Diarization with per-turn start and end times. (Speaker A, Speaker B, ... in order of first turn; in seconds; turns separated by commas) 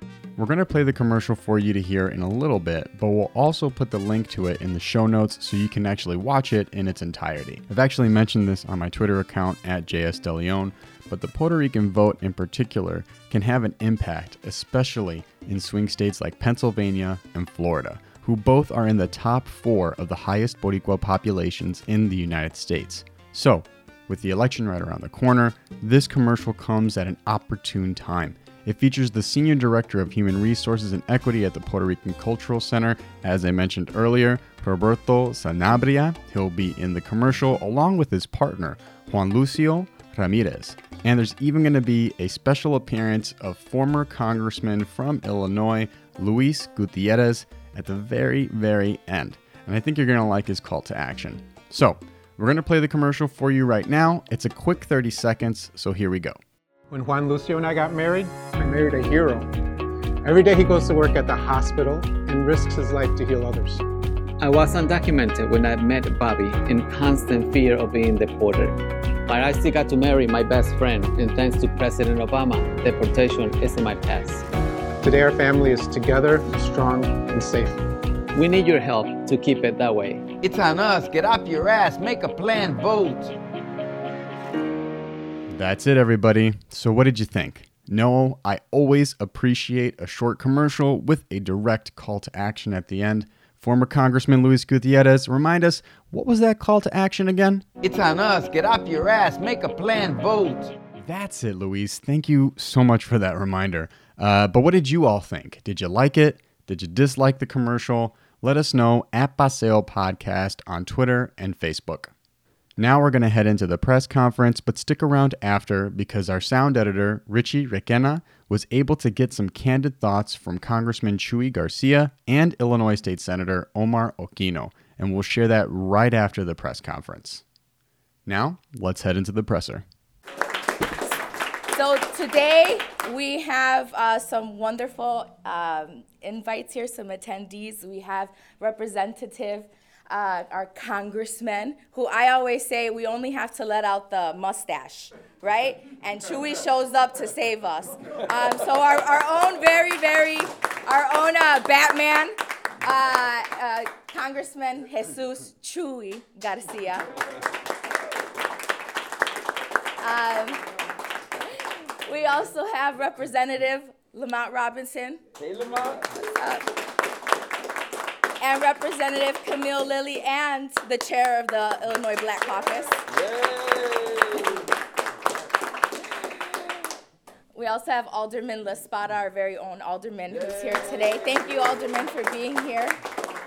Speaker A: 0.4-56.4, Speaker B: 56.9-59.5, Speaker B: 60.2-63.8, Speaker C: 64.4-74.4, Speaker B: 75.0-77.8, Speaker C: 78.3-80.2, Speaker D: 80.4-83.3, Speaker A: 85.5-97.6, Speaker D: 97.8-100.7, Speaker A: 101.0-112.1, Speaker A: 112.8-127.4, Speaker A: 128.2-129.8, Speaker E: 131.7-157.1, Speaker E: 160.0-160.6, Speaker E: 162.0-165.2, Speaker D: 165.4-166.1, Speaker E: 166.3-166.7, Speaker E: 168.4-173.0, Speaker D: 173.1-174.6, Speaker E: 177.5-183.0